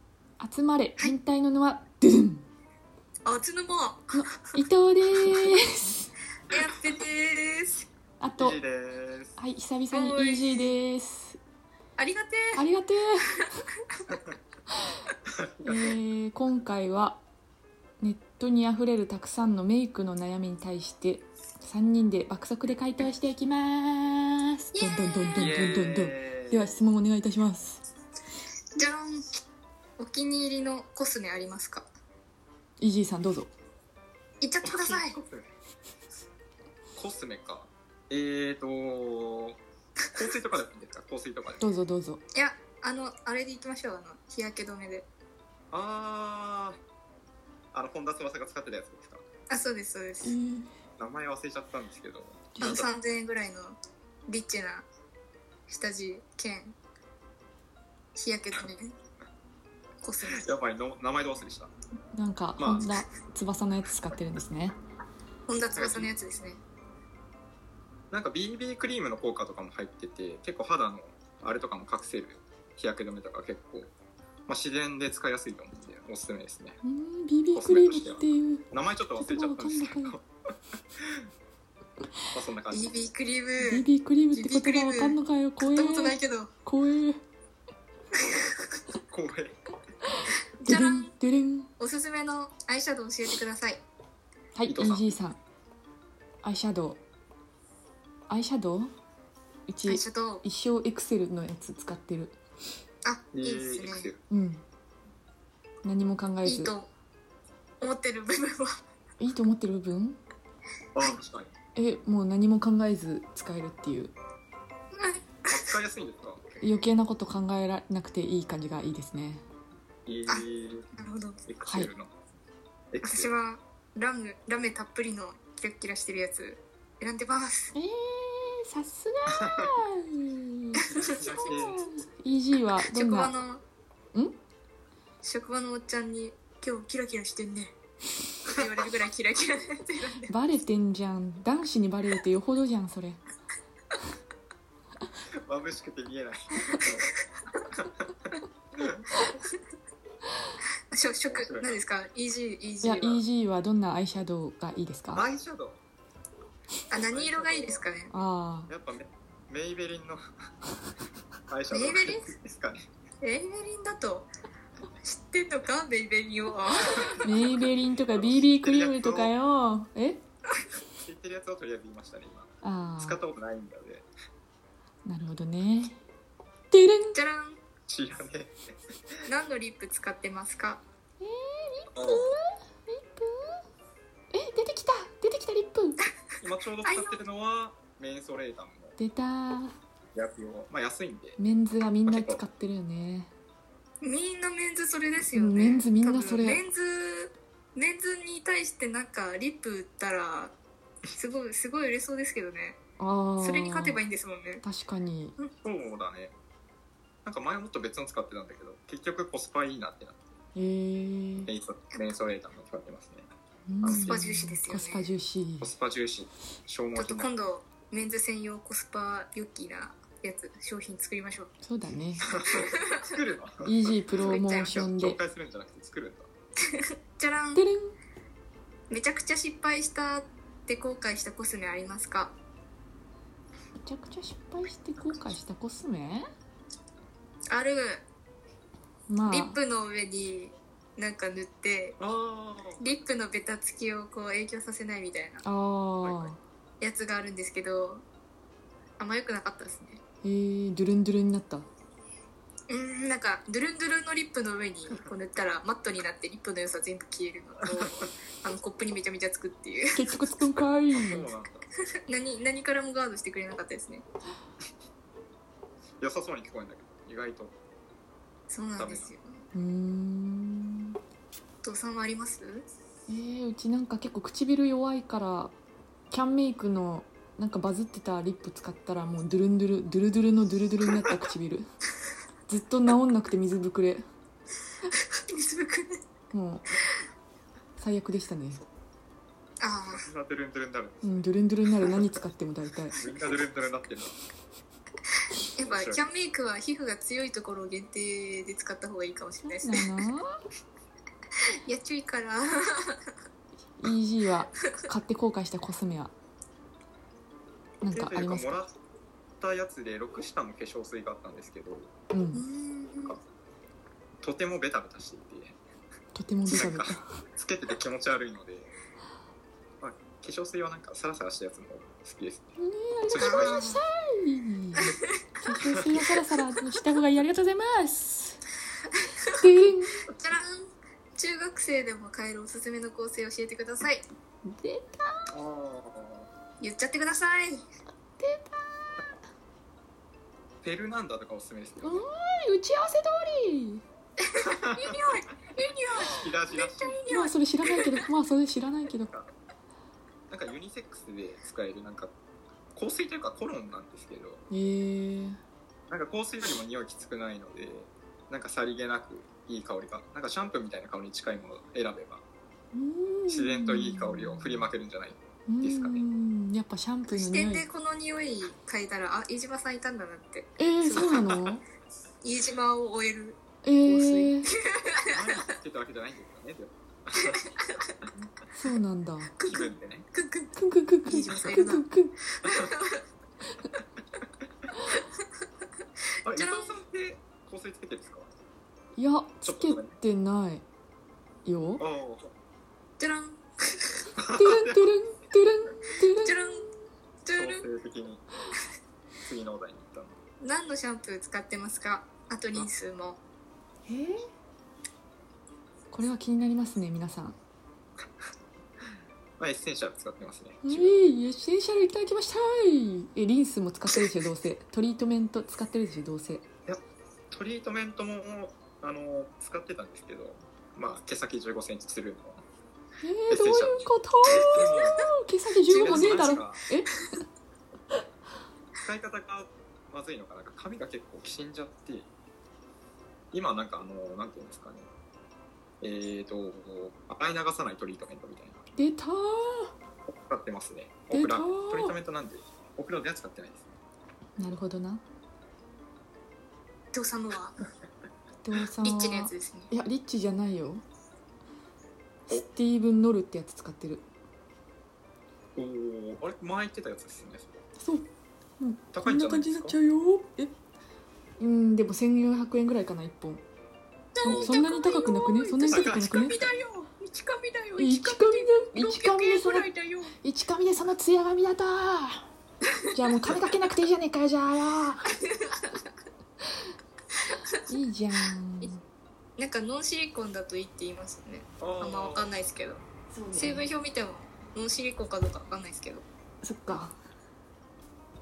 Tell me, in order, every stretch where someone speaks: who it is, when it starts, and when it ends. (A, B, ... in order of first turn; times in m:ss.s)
0:00.4-0:02.4 A
0:03.3-0:04.6 B
0:04.1-0:06.1 A
0:06.5-0:07.9 B
0:08.2-0:08.6 A
0:08.4-0:09.4 C
0:09.4-0:11.4 A
0:09.9-0:10.7 B
0:12.0-0:12.6 B
0:12.6-0:13.5 A
0:15.3-0:16.0 C
0:15.6-0:17.2 A
0:18.0-0:27.8 A
0:24.7-0:25.6 B
0:25.4-0:26.8 C
0:28.8-0:29.4 B
0:30.0-0:31.9 B
0:32.8-0:33.5 A
0:34.4-0:35.2 B
0:34.6-0:35.5 C
0:37.0-0:39.6 C
0:40.2-0:41.7 C
0:41.6-0:42.2 A
0:42.4-0:45.1 B
0:45.7-0:46.8 C
0:47.7-0:49.2 C
0:49.5-0:50.4 B
0:50.2-0:50.7 A
0:51.0-0:52.9 C
0:52.6-0:52.8 A
0:52.6-0:53.8 B
0:54.3-0:54.9 B
0:55.7-0:56.8 B
0:58.2-0:58.9 B
1:00.0-1:00.5 B
1:00.2-1:01.7 C
1:02.2-1:04.8 A
1:02.6-1:02.9 C
1:05.5-1:06.6 B
1:05.8-1:06.1 C
1:08.1-1:13.9 C
1:14.5-1:16.8 C
1:16.8-1:18.7 A
1:17.5-1:20.2 C
1:19.2-1:20.2 A
1:21.0-1:21.2 C
1:22.3-1:23.0 C
1:22.7-1:26.5 B
1:23.6-1:27.2 A
1:28.2-1:28.6 B
1:29.0-1:29.5 C
1:30.6-1:31.1 B
1:30.7-1:31.7 A
1:31.8-1:33.8 B
1:34.6-1:35.4 A
1:34.7-1:35.2 C
1:36.4-1:37.0 A
1:38.3-1:38.9 A
1:39.7-1:42.4 A
1:39.9-1:40.4 B
1:43.0-1:44.1 B
1:43.3-1:44.2 C
1:44.3-1:44.6 A
1:45.8-1:46.7 A
1:46.4-1:46.9 B
1:47.8-1:48.8 B
1:49.2-1:50.2 A
1:51.0-1:51.5 C
1:51.8-1:54.1 A
1:55.0-1:55.8 B
1:55.5-1:56.6 C
1:56.6-1:59.4 A
2:00.1-2:00.9 C
2:01.0-2:01.4 B
2:01.5-2:02.1 C
2:01.7-2:01.9 A
2:02.9-2:03.3 C
2:03.0-2:07.7 B
2:07.8-2:13.3 A
2:09.3-2:09.6 C
2:10.9-2:11.5 B
2:11.0-2:11.9 C
2:12.9-2:13.6 B
2:15.2-2:17.7 B
2:18.4-2:20.3 B
2:20.3-2:23.2 A
2:25.4-2:27.1 C
2:26.7-2:27.1 B
2:28.8-2:29.1 C
2:30.9-2:33.2 B
2:31.3-2:31.8 C
2:32.8-2:35.3 A
2:35.1-2:35.8 C
2:36.9-2:38.1 B
2:37.0-2:37.9 C
2:38.1-2:38.7 A
2:38.7-2:40.2 C
2:41.5-2:42.9 C
2:41.7-2:42.3 B
2:43.2-2:44.3 B
2:45.0-2:47.3 B
2:47.0-2:50.2 A
2:47.2-2:47.6 C
2:48.2-2:49.3 C
2:51.0-2:54.1 C
2:52.6-2:53.2 A
2:55.1-2:56.0 A
2:56.7-2:57.2 A
2:57.1-2:57.6 B
2:57.9-2:58.5 C
2:59.3-3:00.8 B
3:01.2-3:03.6 A
3:01.9-3:02.3 C
3:04.3-3:06.0 A
3:06.4-3:09.0 C
3:06.8-3:07.2 B
3:09.0-3:09.7 A
3:10.2-3:11.4 C
3:11.4-3:13.3 A
3:12.0-3:12.4 C
3:14.0-3:20.6 B
3:15.3-3:16.6 A
3:21.1-3:22.8 B
3:23.0-3:24.0 A
3:23.4-3:24.6 B
3:24.6-3:25.4 A
3:25.6-3:26.3 C
3:27.2-3:30.2 C
3:30.6-3:31.5 A
3:31.5-3:33.3 C
3:33.7-3:35.7 A
3:33.8-3:34.2 C
3:33.8-3:35.1 B
3:35.6-3:37.3 C
3:37.0-3:41.5 B
3:41.6-3:42.2 A
3:42.2-3:46.3 C
3:42.5-3:43.0 B
3:43.6-3:45.2 A
3:44.2-3:44.8 B
3:46.7-3:47.6 B
3:47.6-3:48.0 A
3:48.9-3:52.3 B
3:53.8-3:56.3 A
3:57.5-3:58.0 B
3:59.1-3:59.6 A
3:59.3-4:02.0 B
4:02.0-4:02.9 C
4:02.8-4:05.4 B
4:05.4-4:06.4 A
4:06.0-4:06.3 C
4:06.8-4:08.0 B
4:09.0-4:10.0 B
4:10.2-4:11.7 A
4:12.7-4:20.3 B
4:20.0-4:21.3 A
4:20.9-4:21.7 C
4:22.1-4:24.0 B
4:26.0-4:27.6 C
4:28.5-4:29.4 B
4:28.8-4:29.1 C
4:29.5-4:31.0 A
4:31.6-4:32.7 B
4:33.1-4:35.5 A
4:36.1-4:41.6 A
4:42.5-4:44.0 A
4:45.2-4:46.0 B
4:46.3-4:46.7 A
4:47.8-4:48.6 A
4:49.6-4:50.0 B
4:49.9-4:51.3 C
4:51.0-4:53.0 A
4:53.0-4:54.2 C
4:55.5-4:59.8 B
4:55.6-4:56.1 C
4:59.4-5:00.4 A
5:01.6-5:03.1 B
5:03.8-5:06.1 A
5:07.8-5:08.6 A
5:07.9-5:08.7 C
5:09.4-5:11.9 C
5:12.1-5:12.4 A
5:12.3-5:13.2 B
5:14.2-5:15.6 C
5:16.1-5:17.2 A
5:16.5-5:18.8 C
5:19.8-5:22.5 C
5:22.6-5:28.4 A
5:23.1-5:23.6 C
5:23.2-5:23.8 B
5:29.4-5:30.0 A
5:30.1-5:34.0 B
5:34.5-5:35.3 A
5:35.3-5:36.3 C
5:36.6-5:37.6 B
5:38.0-5:39.1 A
5:40.6-5:42.0 C
5:41.8-5:43.8 A
5:44.2-5:47.9 B
5:44.4-5:45.0 C
5:46.1-5:47.0 C
5:47.1-5:49.1 A
5:50.3-5:52.1 C
5:52.8-5:54.4 C
5:54.5-5:55.4 A
5:55.9-6:02.2 C
6:02.7-6:04.7 A
6:03.3-6:06.1 C
6:05.5-6:07.6 A
6:07.1-6:11.5 B
6:10.6-6:11.6 A
6:12.2-6:15.5 B
6:13.6-6:14.5 A
6:15.1-6:17.5 C
6:17.3-6:17.9 B
6:18.5-6:19.4 A
6:19.4-6:21.8 B
6:19.4-6:20.1 C
6:20.6-6:22.2 A
6:22.4-6:23.0 B
6:26.2-6:26.8 B
6:26.2-6:28.3 C
6:29.0-6:30.6 A
6:29.4-6:30.0 C
6:31.4-6:31.8 A
6:31.8-6:32.3 C
6:33.0-6:34.0 B
6:34.2-6:34.9 C
6:34.3-6:36.4 A
6:36.2-6:36.7 B
6:37.2-6:37.7 B
6:37.4-6:38.3 C
6:39.2-6:40.2 C
6:40.4-6:43.2 B
6:43.9-6:44.3 A
6:45.9-6:47.4 A
6:49.4-6:51.0 C
6:50.6-6:56.5 A
6:56.7-7:02.4 C
7:03.0-7:06.9 A
7:03.3-7:05.1 C
7:04.3-7:05.1 B
7:05.7-7:06.3 B
7:05.7-7:06.6 C
7:08.8-7:12.1 C
7:13.3-7:14.9 C
7:15.8-7:18.6 C
7:18.8-7:19.7 A
7:20.1-7:23.7 C
7:21.1-7:22.0 A
7:24.4-7:25.0 A
7:26.9-7:27.6 B
7:28.4-7:30.8 A
7:28.8-7:29.7 B
7:32.3-7:34.0 A
7:35.6-7:37.6 C
7:37.8-7:38.1 A
7:38.6-7:40.5 A
7:38.9-7:39.8 C
7:41.4-7:43.4 A
7:44.2-7:50.1 B
7:44.2-7:46.5 A
7:44.2-7:44.7 C
7:45.7-7:46.5 C
7:47.8-7:49.7 A
7:50.2-7:52.3 A
7:52.9-7:55.1 A
7:55.2-7:55.8 B
7:57.7-7:58.8 A
7:59.4-8:02.8 B
8:01.6-8:02.3 C
8:03.1-8:03.7 A
8:03.3-8:06.1 B
8:06.4-8:07.0 A